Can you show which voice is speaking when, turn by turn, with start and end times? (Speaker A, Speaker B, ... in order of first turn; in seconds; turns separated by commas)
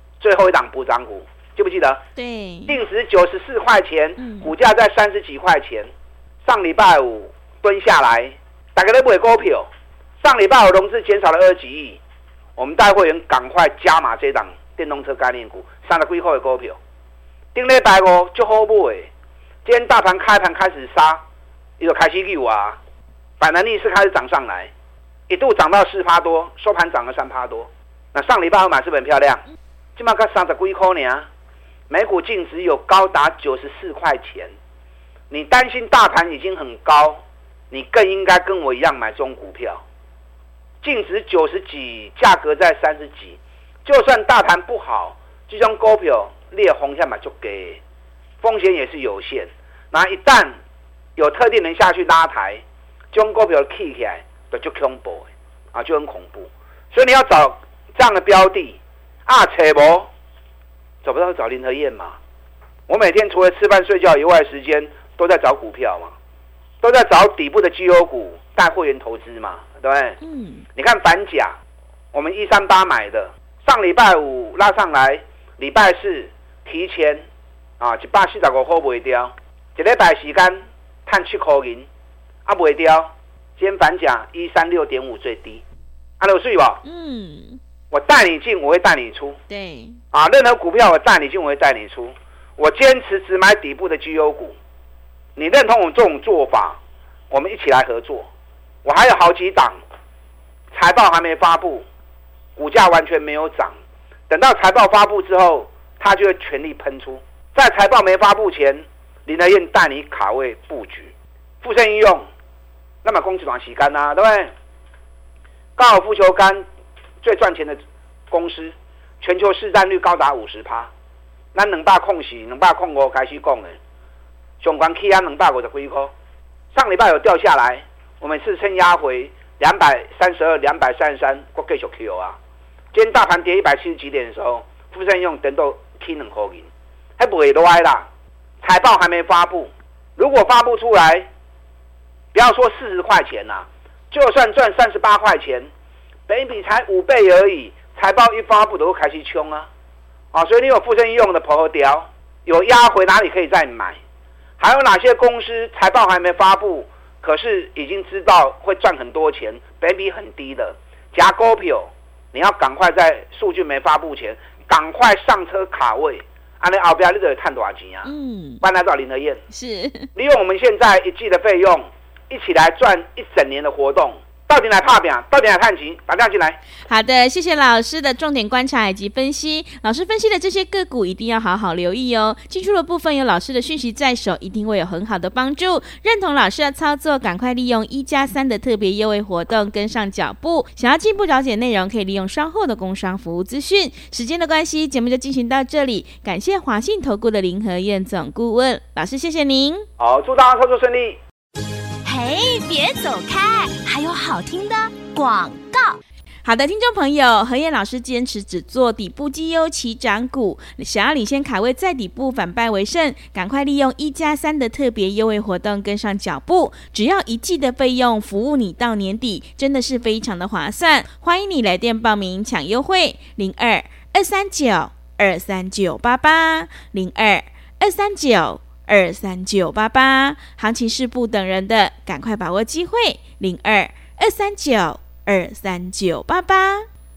Speaker A: 0.2-2.0, Speaker B: 2.1-2.8, Speaker A: 2.7-5.9, Speaker B: 4.2-4.5, Speaker A: 6.4-9.7, Speaker A: 10.2-12.0, Speaker A: 12.6-16.8, Speaker A: 17.5-19.1, Speaker A: 19.6-21.2, Speaker A: 21.8-22.8, Speaker A: 23.4-24.7, Speaker A: 25.3-29.4, Speaker A: 29.9-31.3, Speaker A: 31.9-34.5, Speaker A: 35.3-39.8, Speaker A: 40.8-47.8, Speaker A: 48.4-50.6, Speaker A: 51.2-60.1, Speaker A: 61.0-62.2, Speaker A: 62.9-66.1, Speaker A: 66.8-70.2, Speaker B: 70.2-70.6, Speaker A: 70.8-71.6, Speaker A: 72.1-77.2, Speaker A: 77.8-81.9, Speaker A: 82.5-85.6, Speaker A: 86.2-86.8, Speaker B: 86.8-87.6, Speaker A: 87.9-89.4, Speaker B: 89.5-90.0, Speaker A: 90.1-94.5, Speaker A: 95.3-96.8, Speaker A: 97.3-98.3, Speaker A: 98.8-99.8, Speaker A: 100.7-101.8, Speaker A: 102.5-103.7, Speaker A: 104.3-112.2, Speaker A: 113.0-114.5, Speaker A: 115.8-116.6, Speaker A: 117.2-117.8, Speaker A: 118.3-120.9, Speaker A: 121.5-123.8, Speaker A: 124.6-126.1, Speaker A: 126.7-132.4, Speaker A: 132.9-138.1, Speaker A: 138.6-141.3, Speaker A: 142.3-145.7, Speaker A: 146.3-149.7, Speaker A: 150.3-154.0, Speaker A: 154.6-169.4, Speaker B: 168.0-168.6, Speaker B: 169.5-170.1, Speaker A: 170.1-176.6, Speaker B: 176.9-199.8, Speaker A: 200.0-201.2, Speaker C: 202.1-206.0, Speaker B: 206.4-236.8